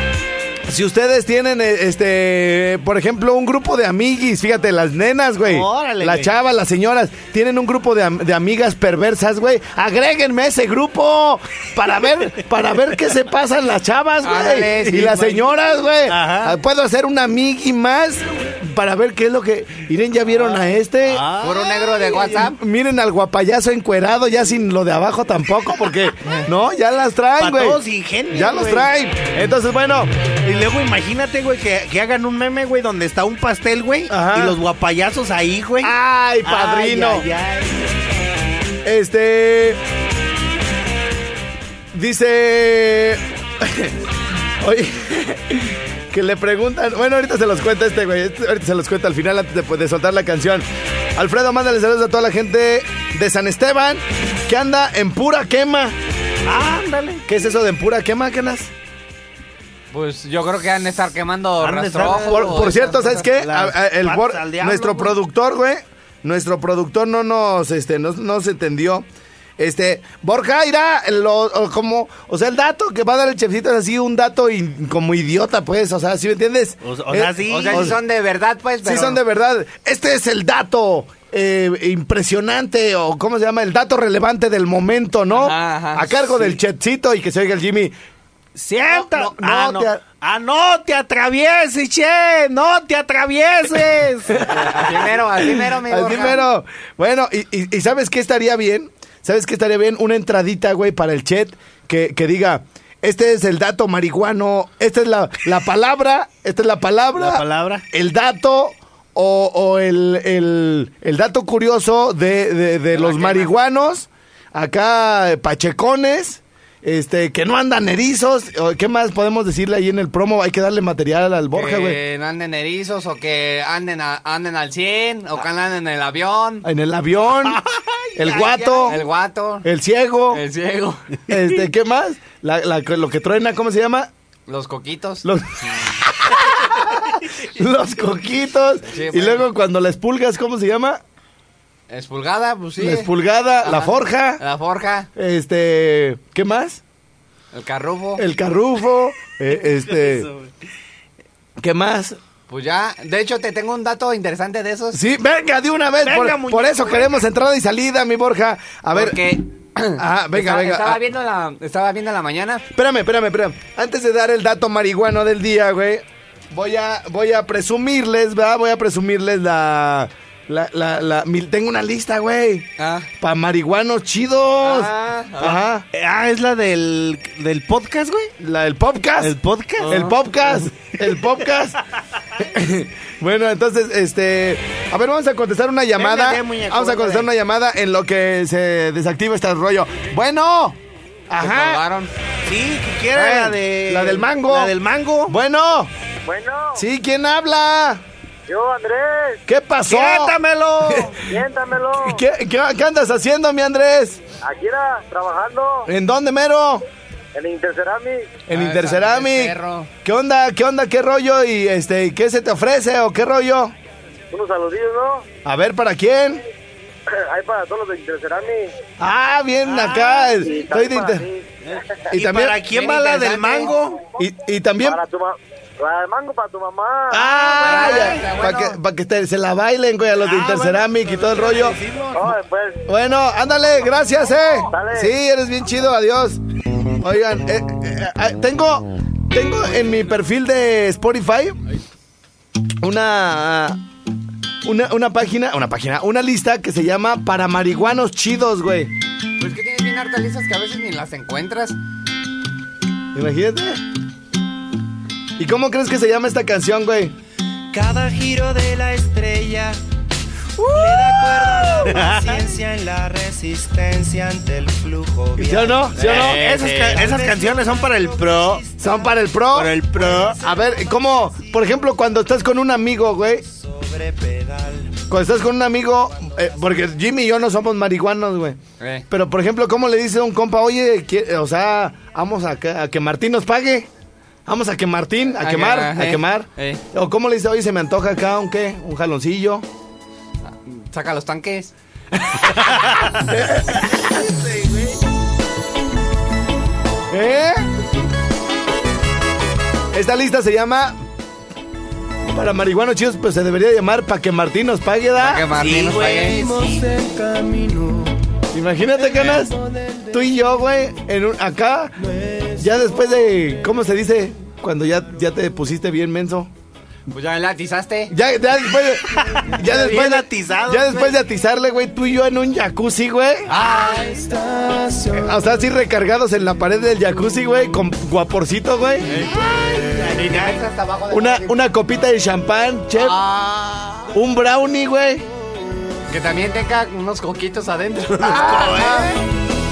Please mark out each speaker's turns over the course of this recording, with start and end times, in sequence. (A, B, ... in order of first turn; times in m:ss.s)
0:00.7-0:21.2 A
0:05.4-0:06.3 B
0:14.2-0:15.4 C
0:14.9-0:15.2 B
0:16.1-0:16.6 B
0:21.0-0:22.4 B
0:21.4-0:22.6 C
0:22.3-0:30.1 A
0:27.4-0:28.9 B
0:30.4-0:35.9 B
0:34.1-0:34.6 A
0:35.8-0:37.2 A
0:36.4-0:37.8 B
0:38.8-0:39.8 A
0:41.9-0:43.9 A
0:44.6-0:50.6 A
0:51.2-0:55.9 A
0:56.4-0:57.2 B
0:57.2-0:58.7 A
0:59.9-1:03.3 C
1:01.6-1:05.2 B
1:02.1-1:09.0 A
1:09.6-1:18.0 A
1:16.8-1:18.0 B
1:17.5-1:19.2 C
1:18.8-1:27.9 A
1:25.3-1:26.3 C
1:28.6-1:34.4 B
1:28.9-1:30.0 A
1:34.4-1:36.4 C
1:34.4-2:02.0 A
1:47.2-1:47.8 B
1:52.9-1:53.5 C
2:01.5-2:06.6 C
2:06.6-2:07.6 A
2:07.5-2:09.0 B
2:08.2-2:09.0 A
2:08.9-2:09.6 C
2:09.6-2:10.4 A
2:10.3-2:11.0 C
2:11.3-2:14.1 A
2:14.5-2:15.2 C
2:15.2-2:21.0 A
2:18.9-2:19.5 C
2:21.9-2:23.1 C
2:22.8-2:24.4 A
2:23.6-2:25.1 C
2:25.2-2:26.8 A
2:27.5-2:28.2 C
2:28.2-2:30.3 A
2:31.6-2:32.2 A
2:32.5-2:35.0 C
2:34.9-2:39.4 A
2:36.0-2:37.2 B
2:38.9-2:42.6 C
2:40.0-2:41.0 A
2:42.7-2:55.8 A
2:52.8-2:53.1 C
2:54.6-2:55.6 C
2:55.9-2:58.3 B
2:58.4-3:01.8 A
2:59.2-3:00.0 B
2:59.8-3:00.1 C
3:02.4-3:10.8 A
3:06.0-3:07.3 B
3:11.3-3:11.8 A
3:11.4-3:12.1 C
3:12.4-3:15.3 B
3:13.1-3:14.7 A
3:15.3-3:15.9 A
3:16.2-3:16.8 D
3:16.8-3:18.0 A
3:18.5-3:19.4 D
3:19.5-3:21.1 A
3:19.8-3:21.2 B
3:21.3-3:22.2 D
3:22.0-3:24.2 A
3:24.4-3:25.9 D
3:25.9-3:26.8 A
3:27.3-3:28.3 D
3:28.5-3:33.7 A
3:28.5-3:29.9 C
3:34.3-3:35.2 D
3:35.4-3:36.4 A
3:37.1-3:38.7 D
3:39.0-3:41.2 A
3:39.7-3:40.2 B
3:40.4-3:41.4 D
3:41.7-3:44.0 B
3:42.1-3:42.9 A
3:42.7-3:43.7 C
3:44.2-3:45.0 A
3:44.8-3:47.5 D
3:47.1-3:51.8 A
3:47.6-3:48.8 C
3:50.2-3:52.4 B
3:52.2-3:52.8 D
3:52.9-3:56.4 A
3:54.7-3:55.1 D
3:57.0-4:01.6 A
4:02.8-4:03.8 A
4:04.6-4:08.9 A
4:09.4-4:11.8 C
4:13.1-4:13.8 A
4:15.4-4:17.1 A
4:17.7-4:19.8 E
4:20.6-4:22.0 A
4:20.7-4:26.0 E
4:21.9-4:22.2 B
4:25.4-4:26.4 A
4:25.9-4:27.1 C
4:26.0-4:28.6 B
4:26.7-4:31.8 E
4:28.8-4:29.8 A
4:29.5-4:30.4 B
4:30.4-4:33.4 A
4:33.4-4:35.0 E
4:35.1-4:38.6 A
4:36.2-4:36.8 E
4:38.8-4:39.0 C
4:39.1-4:43.9 A
4:44.5-4:49.6 A
4:45.4-4:46.8 C
4:50.4-4:51.7 C
4:53.1-4:54.5 A
4:57.1-4:57.7 A
4:59.9-5:01.0 A
5:02.3-5:05.5 A
5:05.2-5:06.4 C
5:05.6-5:06.8 B
5:06.3-5:08.1 E
5:08.5-5:09.6 A
5:10.1-5:11.9 A
5:12.6-5:16.5 A
5:17.1-5:18.1 C
5:18.1-5:23.5 A
5:19.2-5:21.1 B
5:23.5-5:24.4 C
5:25.1-5:29.2 A
5:29.1-5:29.4 C
5:29.3-5:30.6 B
5:30.1-5:31.6 C
5:31.1-5:33.2 A
5:33.0-5:34.0 C
5:34.1-5:35.2 A
5:36.1-5:38.8 C
5:38.2-5:39.2 B
5:38.2-5:39.1 A